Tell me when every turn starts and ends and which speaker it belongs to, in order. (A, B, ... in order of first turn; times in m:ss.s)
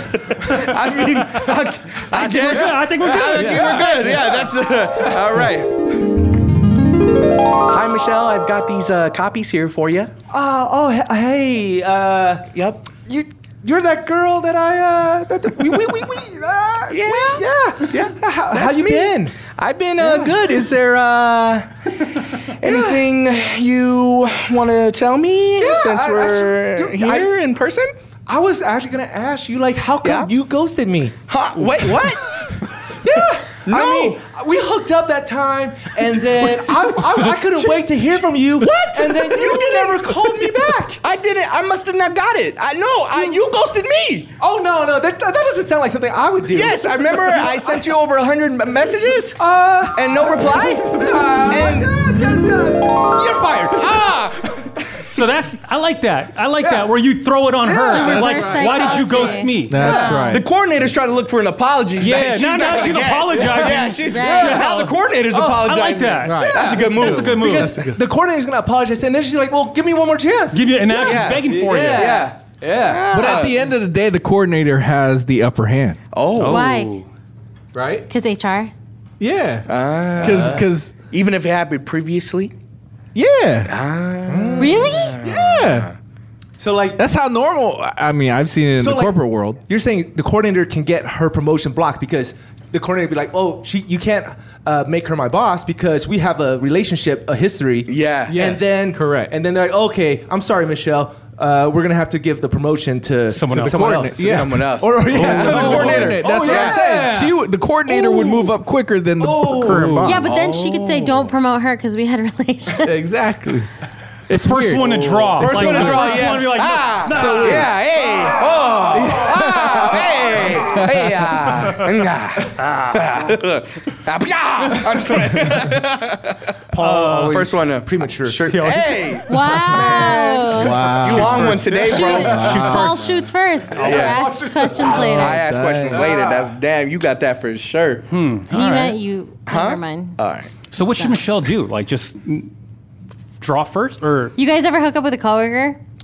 0:00.4-0:05.7 A
0:01.4-0:04.2 B
0:03.3-0:04.5 C
0:07.7-0:10.1 A
0:10.3-0:19.4 C
0:12.5-0:13.0 A
0:16.9-0:21.7 A
0:20.0-0:20.6 C
0:22.6-0:27.9 A
0:22.6-0:23.0 C
0:25.6-0:27.3 C
0:28.3-0:31.2 C
0:30.0-0:30.3 A
0:31.3-0:34.3 A
0:33.0-0:41.0 C
0:38.6-0:44.3 A
0:44.4-0:47.8 C
0:46.5-0:49.4 A
0:49.4-0:54.2 C
0:49.9-0:51.9 A
0:53.8-0:55.1 A
0:55.1-0:59.8 B
0:56.6-0:56.9 C
0:57.6-0:59.0 C
0:57.9-1:00.4 D
0:57.9-0:58.6 E
0:59.7-1:00.5 E
0:59.8-1:00.2 C
1:00.2-1:07.9 A
1:02.0-1:05.0 B
1:04.1-1:04.6 D
1:04.2-1:04.5 C
1:05.3-1:13.4 C
1:05.6-1:07.8 B
1:06.2-1:06.8 E
1:10.5-1:12.2 B
1:11.0-1:13.7 A
1:13.1-1:16.0 E
1:16.1-1:16.7 A
1:16.4-1:17.1 B
1:16.5-1:17.0 D
1:17.8-1:18.0 E
1:18.1-1:18.7 D
1:19.2-1:20.9 E
1:19.7-1:22.5 A
1:20.2-1:20.6 C
1:23.2-1:23.7 E
1:23.6-1:26.0 A
1:24.3-1:25.0 C
1:24.6-1:25.2 D
1:25.2-1:25.9 E
1:26.6-1:27.0 C
1:27.0-1:29.6 E
1:28.8-1:48.6 C
1:37.9-1:38.5 A
1:38.3-1:39.3 E
1:43.3-1:44.1 B
1:43.6-1:50.3 E
1:44.2-1:46.8 A
1:45.2-1:45.8 B
1:49.2-1:50.1 C
1:49.6-1:50.2 B
1:50.0-1:53.0 D
1:50.2-1:51.3 A
1:52.8-1:53.7 E
1:54.3-1:56.2 E
1:54.3-1:57.7 B
1:55.4-2:06.4 A
1:57.1-1:57.7 E
1:58.9-2:01.5 E
2:02.7-2:02.9 B
2:06.7-2:08.6 C
2:06.8-2:07.5 B
2:07.3-2:13.0 A
2:08.5-2:09.6 B
2:09.3-2:11.0 D
2:10.5-2:13.0 E
2:11.1-2:14.3 B
2:11.2-2:11.8 C
2:11.8-2:15.4 D
2:13.7-2:16.5 C
2:13.8-2:14.3 A
2:14.8-2:18.1 A
2:14.9-2:16.1 E
2:18.1-2:19.0 B
2:18.5-2:20.2 D
2:19.5-2:20.5 A
2:20.7-2:22.5 B
2:23.4-2:24.4 B
2:24.4-2:25.8 D